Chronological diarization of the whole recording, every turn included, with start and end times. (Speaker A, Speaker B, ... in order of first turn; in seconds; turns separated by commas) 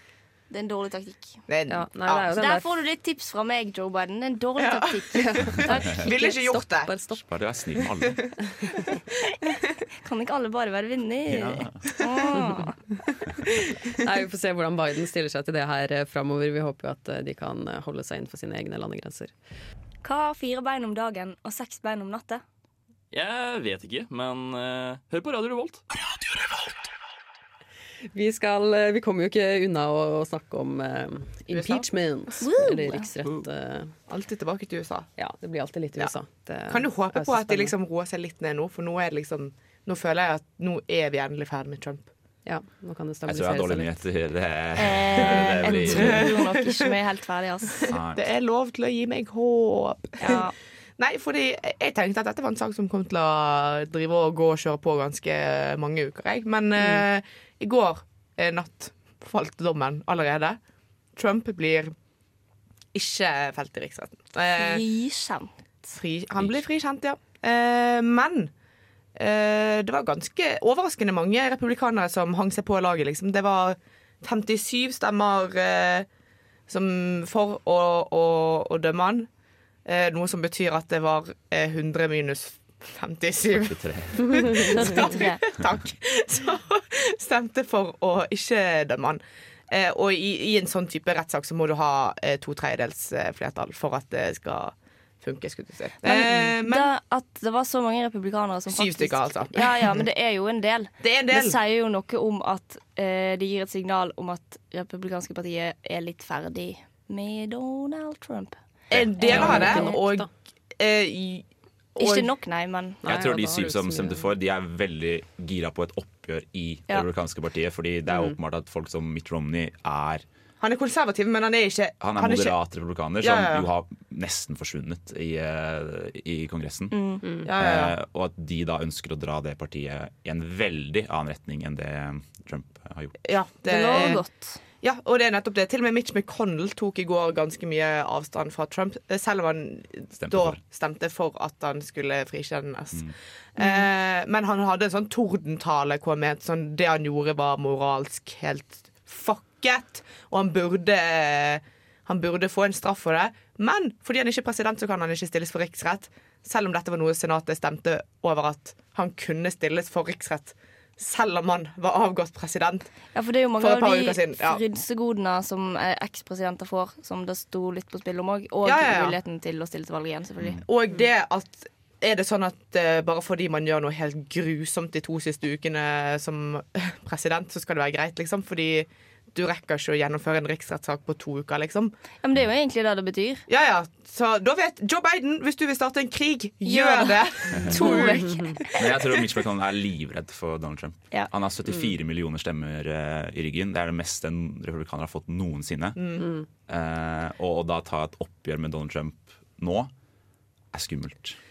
Speaker A: 0.5-1.4, Speaker B: 1.5-2.3, Speaker C: 1.7-2.7, Speaker A: 2.3-6.1, Speaker B: 4.6-6.9, Speaker C: 5.5-7.2, Speaker D: 7.1-8.3, Speaker A: 10.0-12.8, Speaker D: 11.3-11.8, Speaker C: 14.0-19.3, Speaker A: 20.0-22.4, Speaker E: 23.1-25.8, Speaker C: 28.1-33.9, Speaker B: 31.5-31.9, Speaker A: 32.4-33.1, Speaker B: 34.1-35.1, Speaker C: 35.2-37.7, Speaker B: 36.7-42.1, Speaker C: 42.5-44.0, Speaker D: 43.2-46.3, Speaker A: 44.8-47.9, Speaker B: 45.3-46.9, Speaker B: 47.8-60.6, Speaker D: 47.9-48.2, Speaker A: 50.2-50.5, Speaker B: 61.1-61.9, Speaker B: 62.9-64.8, Speaker A: 64.6-65.9, Speaker B: 65.9-68.5, Speaker D: 66.3-66.6, Speaker B: 69.2-76.1, Speaker B: 76.7-79.3, Speaker B: 79.8-96.9, Speaker D: 83.5-84.7, Speaker A: 84.7-85.4, Speaker A: 96.0-108.5, Speaker B: 98.7-100.0, Speaker B: 101.0-101.6, Speaker B: 108.9-112.3, Speaker D: 108.9-109.7, Speaker A: 109.2-110.0, Speaker C: 109.2-110.3, Speaker A: 112.0-113.0, Speaker C: 113.0-114.3, Speaker D: 113.0-120.2, Speaker C: 118.1-118.4, Speaker B: 120.6-122.6, Speaker D: 122.0-127.0, Speaker B: 123.2-123.7, Speaker A: 126.9-127.2, Speaker C: 127.2-127.5, Speaker B: 127.4-127.9, Speaker D: 127.6-133.2, Speaker B: 133.2-162.9, Speaker A: 133.7-134.6, Speaker D: 140.2-140.6, Speaker A: 143.6-143.9, Speaker A: 163.1-170.6, Speaker B: 163.6-164.6, Speaker B: 168.6-169.1, Speaker B: 170.6-181.9, Speaker A: 182.2-183.4, Speaker B: 183.5-188.4, Speaker A: 186.6-189.1, Speaker D: 187.5-187.8, Speaker D: 188.8-196.0, Speaker B: 196.0-196.3, Speaker C: 196.2-196.5, Speaker D: 196.7-199.9, Speaker D: 200.7-201.4